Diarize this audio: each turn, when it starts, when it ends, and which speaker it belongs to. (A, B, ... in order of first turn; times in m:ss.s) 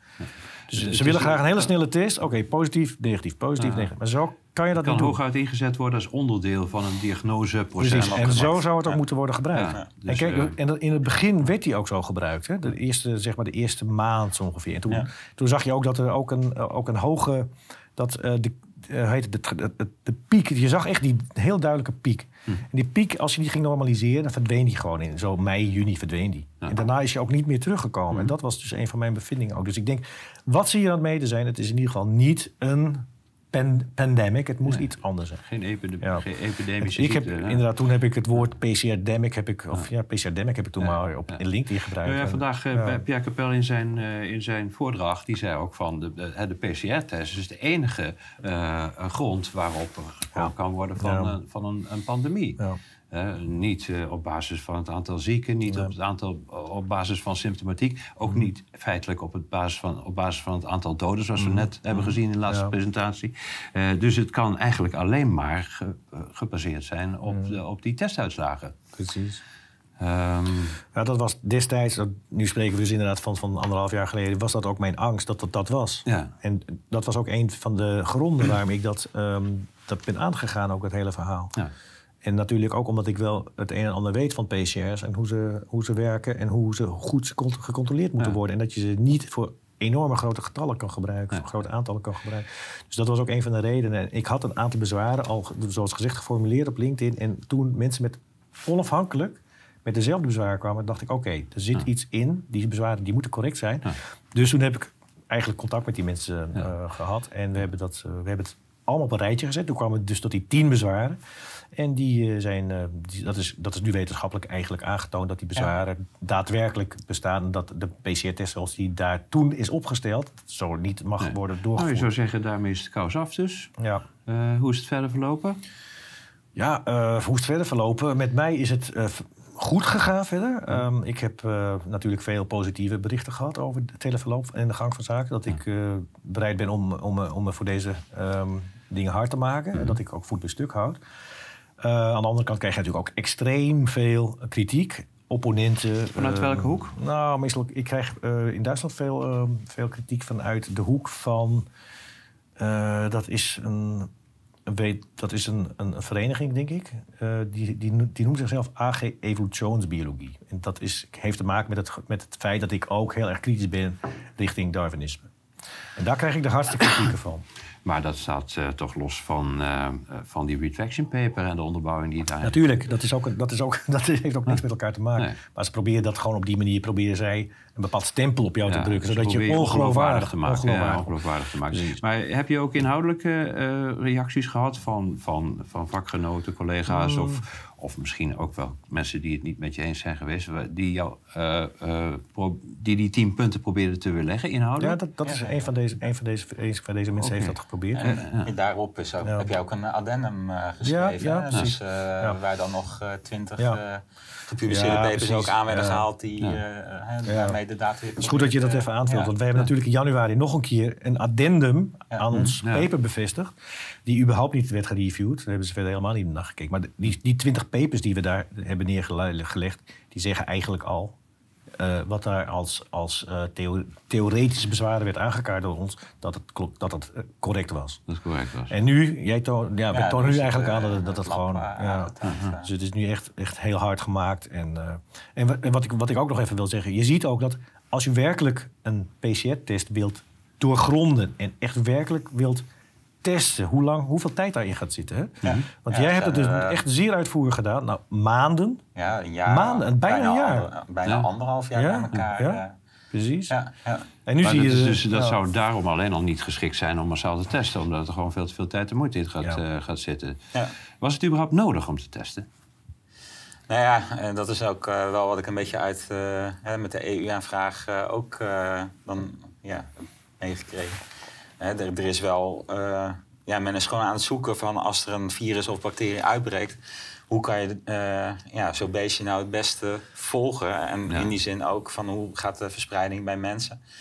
0:00.2-0:01.7 A
0:00.7-0:05.2 B
0:03.6-0:03.9 A
0:04.7-0:08.6 A
0:07.8-0:35.4 B
0:07.9-0:09.0 C
0:09.5-0:10.6 A
0:35.5-0:37.6 A
0:36.8-0:43.0 B
0:40.8-0:41.4 A
0:42.0-1:08.8 A
0:50.3-0:51.3 B
0:55.7-0:55.9 B
1:01.4-1:02.7 B
1:09.0-1:09.4 B
1:10.0-1:10.8 A
1:10.9-1:21.5 B
1:16.0-1:16.3 A
1:22.2-1:51.2 B
1:51.8-2:02.1 B
2:01.2-2:03.7 A
2:03.8-2:04.0 B
2:04.2-2:05.6 A
2:06.6-2:21.0 B
2:21.8-2:31.6 B
2:26.2-2:26.9 A
2:32.6-2:34.1 B
2:34.7-2:45.2 B
2:46.0-2:47.4 B
2:47.8-2:52.6 A
2:52.4-3:01.1 B
2:58.7-3:15.0 A
3:06.9-3:07.4 B
3:14.8-3:18.0 B
3:15.2-3:15.6 C
3:17.2-3:18.5 A
3:17.9-3:29.3 C
3:19.2-3:19.5 B
3:20.8-3:22.4 B
3:24.6-3:26.0 B
3:27.3-3:27.6 B
3:28.2-3:33.5 B
3:32.1-3:32.6 C
3:32.3-3:32.9 A
3:34.1-3:41.1 B
3:41.8-3:48.0 B
3:48.1-3:48.7 A
3:48.7-3:52.1 B
3:49.9-3:52.7 C
3:52.2-3:52.6 A
3:52.6-4:02.6 B
4:03.2-4:08.8 B
4:05.4-4:06.8 C
4:08.9-4:12.7 C
4:09.4-4:10.6 B
4:11.0-4:11.3 A
4:11.8-4:12.6 B
4:13.1-4:13.5 B
4:13.5-4:14.1 C
4:14.3-4:15.4 B
4:14.4-4:20.4 A
4:21.0-4:22.4 A
4:23.7-4:31.0 C
4:31.6-4:36.8 C
4:37.3-4:43.8 C